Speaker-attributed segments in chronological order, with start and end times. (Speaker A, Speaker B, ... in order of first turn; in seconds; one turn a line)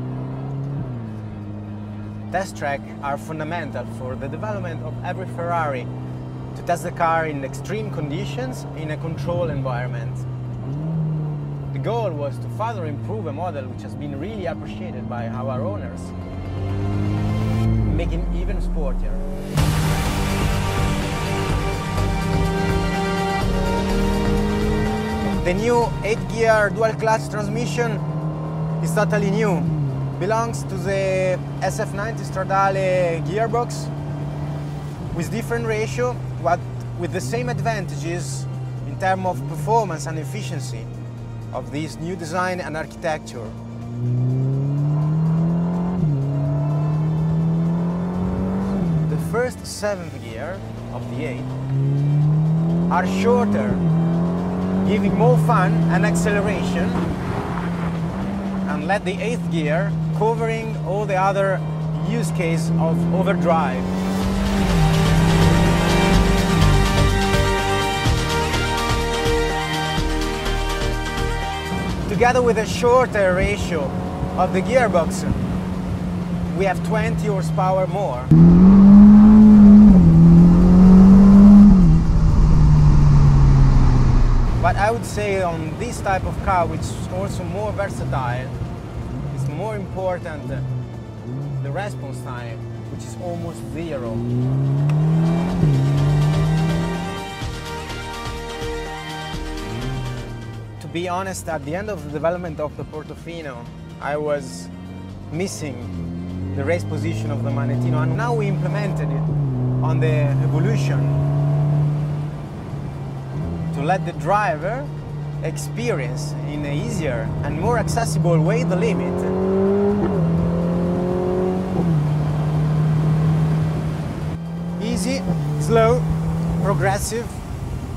Speaker A: 2.3-5.9
Speaker A: 6.5-10.2
Speaker A: 11.7-16.1
Speaker A: 17.8-19.2
Speaker A: 25.3-28.1
Speaker A: 28.8-33.9
Speaker A: 35.1-40.9
Speaker A: 41.5-43.6
Speaker A: 49.0-51.5
Speaker A: 52.9-53.8
Speaker A: 54.8-57.0
Speaker A: 58.6-63.9
Speaker A: 72.1-75.5
Speaker A: 76.5-78.3
Speaker A: 84.6-88.6
Speaker A: 89.3-90.7
Speaker A: 91.6-94.2
Speaker A: 100.8-104.7
Speaker A: 105.3-106.0
Speaker A: 106.5-109.3
Speaker A: 109.8-111.2
Speaker A: 113.7-119.4
Speaker A: 124.8-127.4